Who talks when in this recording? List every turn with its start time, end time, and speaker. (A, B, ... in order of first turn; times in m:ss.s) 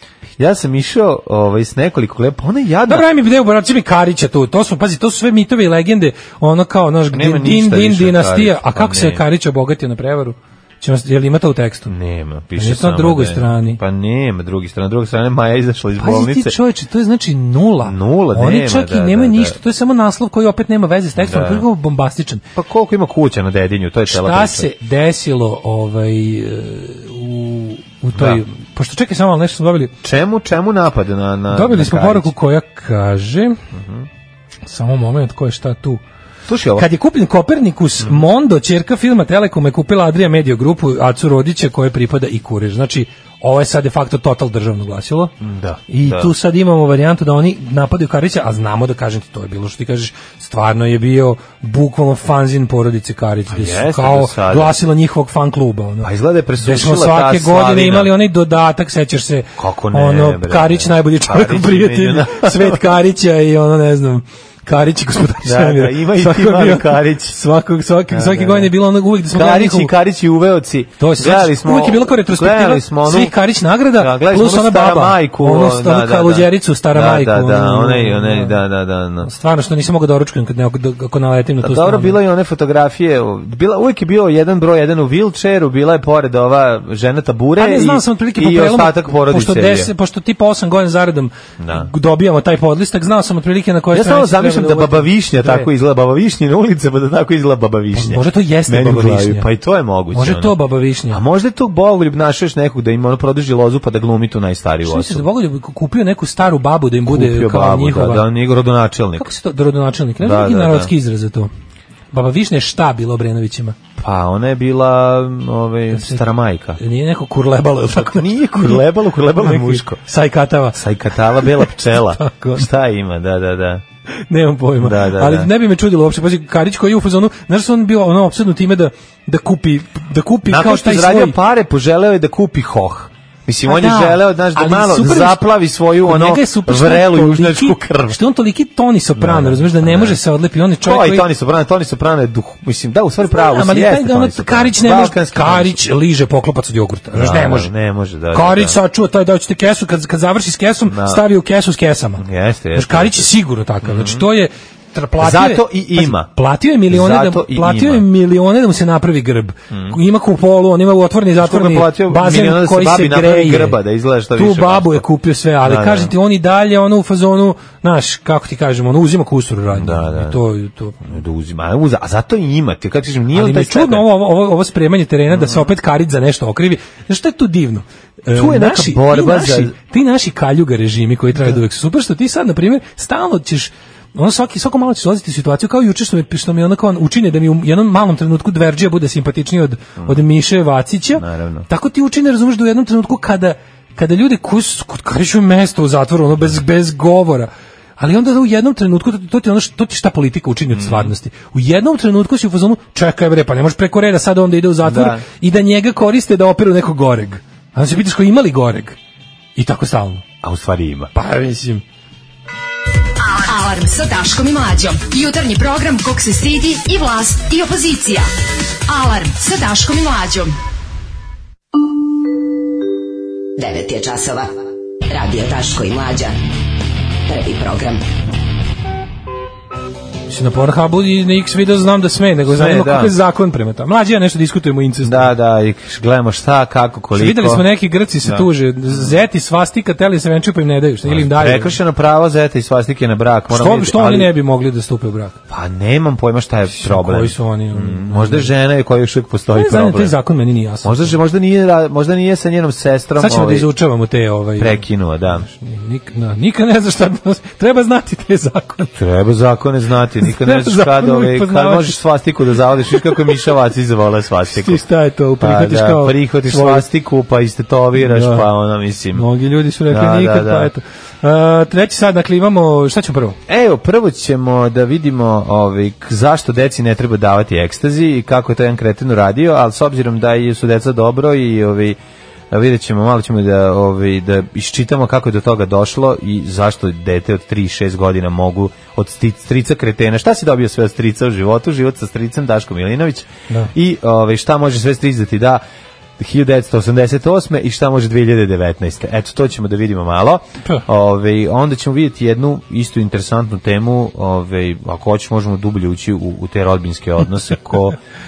0:00.4-0:03.1 A
0:02.9-0:11.9 B
0:07.1-0:09.2 A
0:11.9-0:16.5 A
0:12.6-0:13.8 B
0:16.0-0:22.4 B
0:17.8-0:19.6 A
0:21.2-0:21.6 A
0:22.6-0:24.7 A
0:24.1-0:29.9 B
0:28.1-0:28.4 A
0:30.0-0:32.3 A
0:31.5-0:33.6 B
0:33.7-0:34.1 A
0:34.6-0:36.0 B
0:36.5-0:36.9 A
0:36.8-0:45.3 B
0:45.4-0:46.3 A
0:45.9-0:56.1 B
0:53.5-0:54.8 A
0:56.0-0:58.1 A
0:56.6-1:09.9 B
0:59.6-1:02.9 A
1:05.4-1:07.4 A
1:08.1-1:08.7 A
1:09.3-1:13.4 A
1:11.0-1:18.6 B
1:13.9-1:19.3 A
1:19.2-1:22.2 B
1:21.6-1:29.9 A
1:27.6-1:35.7 B
1:31.6-1:31.9 A
1:33.9-1:40.6 A
1:37.9-1:39.5 B
1:40.1-1:41.2 B
1:41.1-1:45.2 A
1:44.8-1:48.3 B
1:47.0-1:49.3 A
1:49.2-1:51.5 B
1:50.2-1:50.9 A
1:52.1-1:53.8 B
1:54.0-1:56.8 A
1:55.9-1:56.2 B
1:56.8-1:58.8 B
1:57.9-2:00.0 A
1:59.4-2:00.8 B
2:00.7-2:03.8 A
2:01.4-2:02.7 B
2:04.3-2:11.4 B
2:04.8-2:05.5 A
2:10.4-2:18.2 A
2:13.6-2:15.5 B
2:16.0-2:21.3 B
2:19.1-2:20.2 A
2:20.8-2:25.8 A
2:23.2-2:27.7 B
2:27.1-2:28.8 A
2:28.3-2:43.8 B
2:30.9-2:31.2 A
2:32.2-2:33.3 A
2:33.8-2:34.2 A
2:35.2-2:36.3 A
2:36.9-2:38.0 A
2:39.7-2:40.0 A
2:41.4-2:45.0 A
2:44.3-2:51.0 B
2:45.6-2:46.1 A
2:49.7-2:50.4 A
2:51.0-2:54.1 A
2:53.3-3:29.0 B
2:55.3-2:55.7 A
2:58.3-2:59.7 A
3:11.2-3:11.7 A
3:20.7-3:21.1 A
3:24.8-3:25.2 A
3:29.6-3:30.2 B
3:30.4-3:31.1 A
3:31.1-3:31.8 B
3:33.2-3:38.3 C
3:38.9-3:40.5 C
3:43.6-3:44.5 D
3:45.1-3:46.3 D
3:47.3-3:48.0 D
3:50.3-3:55.3 B
3:52.5-3:53.1 A
3:55.0-3:57.6 A
3:57.1-4:01.8 B
3:58.2-3:59.1 A
4:01.0-4:04.3 A
4:03.5-4:05.4 B
4:05.5-4:10.2 A
4:06.7-4:08.5 B
4:09.5-4:11.2 B
4:10.8-4:13.7 A
4:13.2-4:18.9 B
4:14.6-4:15.4 A
4:19.0-4:24.8 A
4:20.2-4:22.0 B
4:22.9-4:23.4 B
4:24.5-4:26.8 B
4:25.4-4:29.3 A
4:28.0-4:28.4 B
4:29.1-4:33.4 B
4:29.9-4:30.7 A
4:33.5-4:42.0 A
4:42.5-4:55.6 A
4:56.2-5:08.0 A